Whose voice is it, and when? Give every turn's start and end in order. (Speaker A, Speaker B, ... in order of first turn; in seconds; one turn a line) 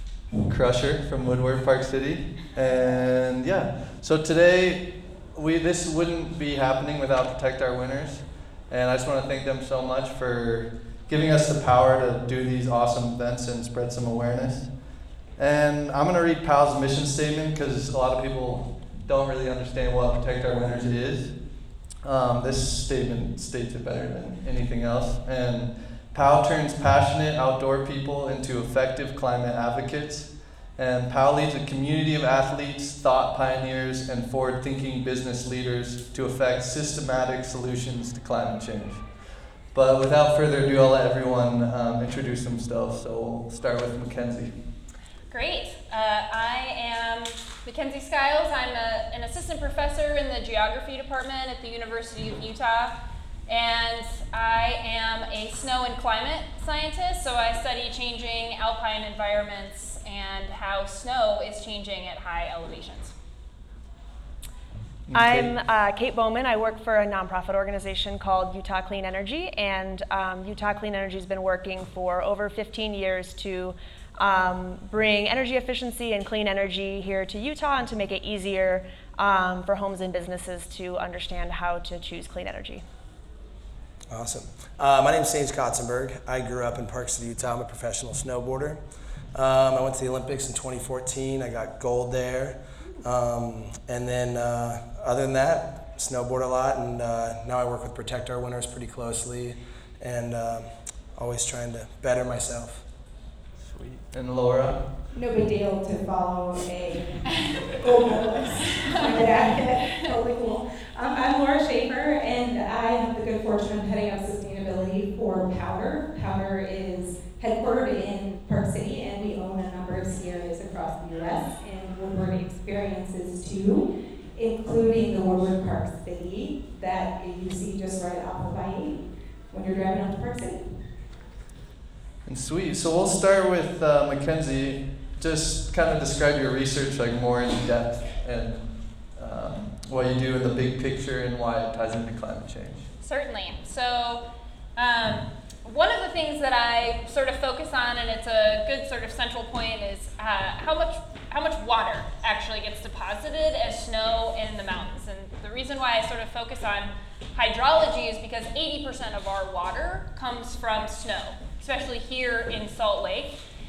Speaker A: 0.4-44.6
Speaker B: 45.3-53.0
Speaker B: 53.5-63.1
Speaker A: 65.1-65.5
Speaker C: 65.1-82.8
Speaker D: 84.1-88.8
Speaker D: 89.3-102.8
Speaker A: 103.6-104.9
Speaker E: 105.1-130.8
Speaker A: 132.2-142.9
Speaker B: 143.0-144.2
Speaker B: 144.8-163.4